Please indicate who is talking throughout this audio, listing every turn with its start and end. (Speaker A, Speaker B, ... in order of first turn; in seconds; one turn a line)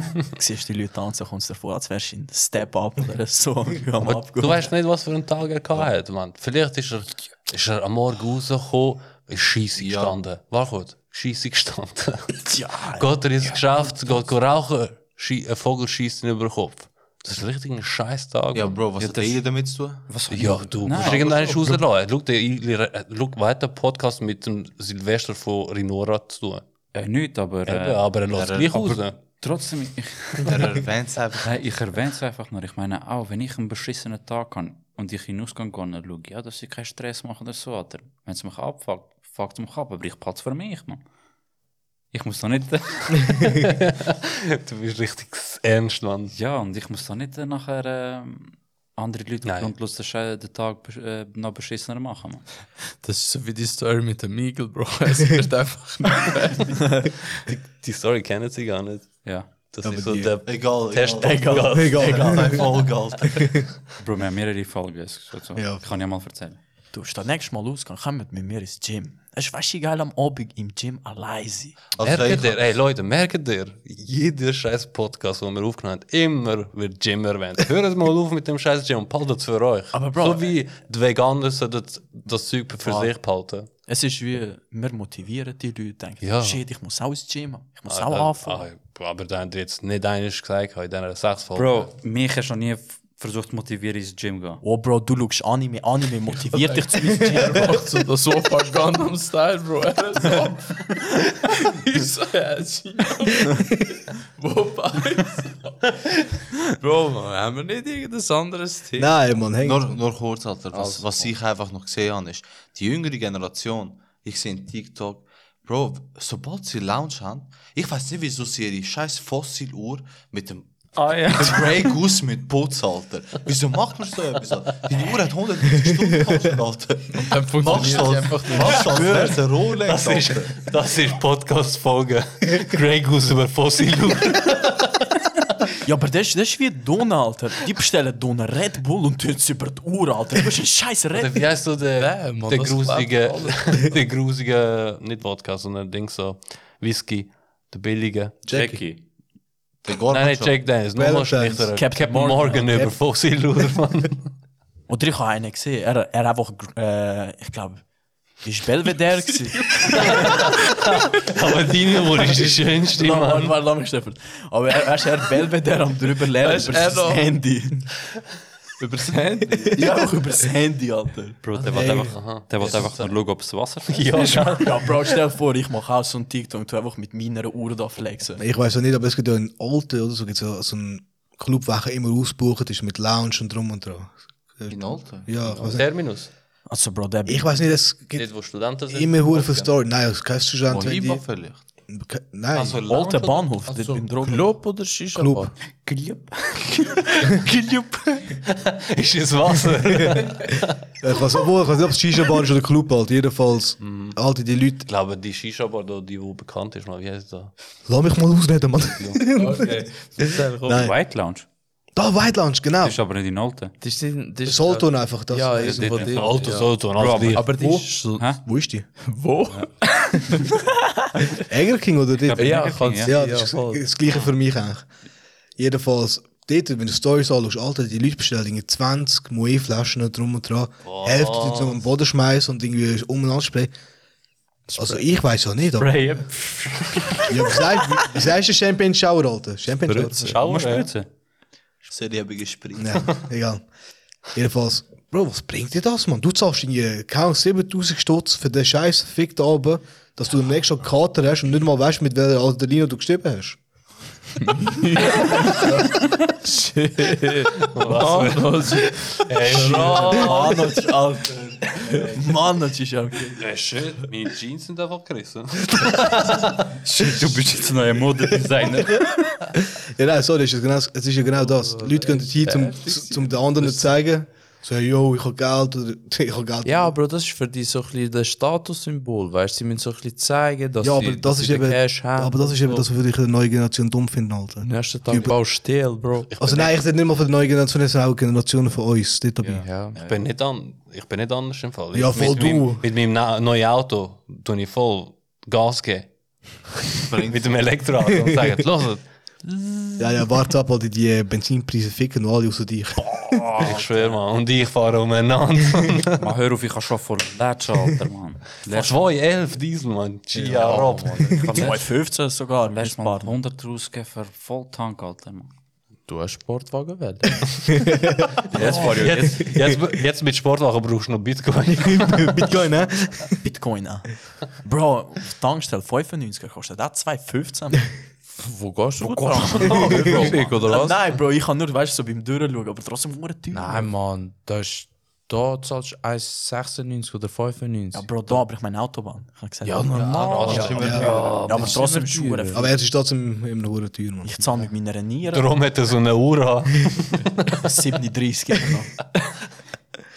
Speaker A: 0.3-4.7
Speaker B: 4.0-12.4
Speaker C: 9.8-10.2
Speaker A: 12.4-13.1
Speaker B: 12.9-18.8
Speaker C: 18.5-20.2
Speaker D: 19.0-19.4
Speaker D: 20.1-21.5
Speaker B: 20.3-26.6
Speaker C: 20.9-21.7
Speaker D: 26.9-28.0
Speaker B: 27.6-29.2
Speaker C: 28.3-29.0
Speaker D: 28.8-30.8
Speaker C: 30.4-31.5
Speaker D: 31.4-41.0
Speaker D: 42.1-43.6
Speaker B: 43.5-46.4
Speaker D: 46.3-52.5
Speaker B: 49.4-49.7
Speaker E: 53.0-57.1
Speaker B: 57.5-62.6
Speaker D: 59.2-59.5
Speaker F: 59.8-60.4
Speaker C: 60.4-63.5
Speaker A: 61.2-62.3
Speaker D: 64.0-66.6
Speaker F: 65.5-65.8
Speaker A: 66.9-71.8
Speaker C: 72.0-72.7
Speaker B: 72.0-83.7
Speaker A: 79.9-80.5
Speaker A: 82.8-83.1
Speaker A: 83.8-88.6
Speaker B: 86.2-86.6
Speaker B: 87.9-91.9
Speaker D: 91.5-94.6
Speaker A: 94.6-97.9
Speaker E: 96.7-105.8
Speaker E: 106.4-109.1
Speaker F: 109.0-110.0
Speaker C: 109.6-130.6
Speaker E: 110.7-111.0
Speaker E: 127.2-129.1
Speaker A: 128.5-129.4
Speaker B: 129.8-135.0
Speaker A: 135.8-141.4
Speaker B: 141.1-148.4
Speaker E: 142.0-143.9
Speaker F: 148.4-148.8
Speaker D: 148.5-149.0
Speaker C: 149.8-150.7
Speaker B: 150.1-154.3
Speaker F: 150.9-151.7
Speaker A: 151.8-153.0
Speaker A: 154.9-157.8
Speaker A: 158.4-160.4
Speaker E: 159.7-160.0
Speaker B: 160.2-163.6
Speaker A: 162.3-167.8
Speaker E: 166.4-167.3
Speaker E: 168.8-169.9
Speaker A: 169.7-171.4
Speaker D: 171.4-174.5
Speaker F: 171.6-172.2
Speaker B: 171.8-172.8
Speaker C: 172.6-173.1
Speaker B: 173.9-174.8
Speaker A: 174.2-178.4
Speaker F: 178.4-185.9
Speaker C: 184.7-185.4
Speaker B: 185.4-186.3
Speaker A: 186.7-187.7
Speaker F: 187.3-191.2
Speaker B: 188.1-189.7
Speaker C: 190.7-191.6
Speaker F: 191.9-192.8
Speaker B: 192.5-193.7
Speaker A: 192.9-194.5
Speaker E: 193.7-195.5
Speaker F: 195.1-195.5
Speaker D: 195.8-197.5
Speaker B: 197.3-200.7
Speaker F: 200.0-200.3
Speaker F: 201.0-204.9
Speaker B: 203.8-204.2
Speaker B: 204.8-207.5
Speaker F: 207.9-210.9
Speaker B: 208.9-209.2
Speaker E: 209.3-210.9
Speaker D: 210.7-211.4
Speaker F: 211.9-212.9
Speaker D: 212.8-213.7
Speaker E: 213.8-218.4
Speaker F: 214.4-216.3
Speaker B: 215.6-217.5
Speaker D: 216.9-218.4
Speaker F: 218.4-218.9
Speaker E: 219.1-221.4
Speaker F: 221.4-224.9
Speaker D: 222.2-223.2
Speaker E: 222.3-223.9
Speaker F: 225.6-233.7
Speaker B: 230.8-231.8
Speaker F: 234.8-236.1
Speaker D: 235.8-238.1
Speaker F: 237.3-240.4
Speaker E: 239.9-240.4
Speaker B: 240.2-240.9
Speaker D: 240.4-241.1
Speaker C: 241.9-243.2
Speaker F: 242.8-243.7
Speaker F: 244.3-253.6
Speaker E: 254.4-260.3
Speaker B: 257.6-260.8
Speaker A: 259.5-263.4
Speaker B: 261.8-262.2
Speaker B: 263.4-266.7
Speaker D: 266.8-269.1
Speaker F: 269.7-276.9
Speaker E: 271.4-273.9
Speaker E: 276.6-282.8
Speaker F: 280.8-285.4
Speaker E: 284.6-286.3
Speaker B: 286.3-286.8
Speaker F: 286.4-289.7
Speaker E: 289.4-290.0
Speaker B: 289.9-296.1
Speaker F: 291.9-292.8
Speaker C: 297.1-297.8
Speaker B: 297.2-300.0
Speaker F: 300.0-303.6
Speaker B: 303.2-306.3
Speaker D: 303.6-304.2
Speaker D: 306.2-309.1
Speaker B: 308.6-311.8
Speaker E: 310.3-311.5
Speaker A: 311.5-313.3
Speaker D: 311.6-311.8
Speaker D: 312.6-315.5
Speaker E: 316.1-317.4
Speaker F: 317.8-318.3
Speaker D: 318.5-319.5
Speaker B: 318.5-322.5
Speaker F: 319.5-319.8
Speaker F: 321.8-323.4
Speaker A: 323.4-327.9
Speaker E: 328.4-331.0
Speaker B: 329.1-330.6
Speaker D: 329.4-330.5
Speaker A: 329.9-333.9
Speaker E: 333.5-338.4
Speaker A: 337.9-342.7
Speaker E: 339.6-342.6
Speaker C: 340.0-341.4
Speaker B: 340.1-341.3
Speaker F: 340.7-341.1
Speaker D: 340.9-341.8
Speaker F: 342.5-344.4
Speaker A: 344.2-345.6
Speaker B: 345.3-347.5
Speaker A: 347.6-348.9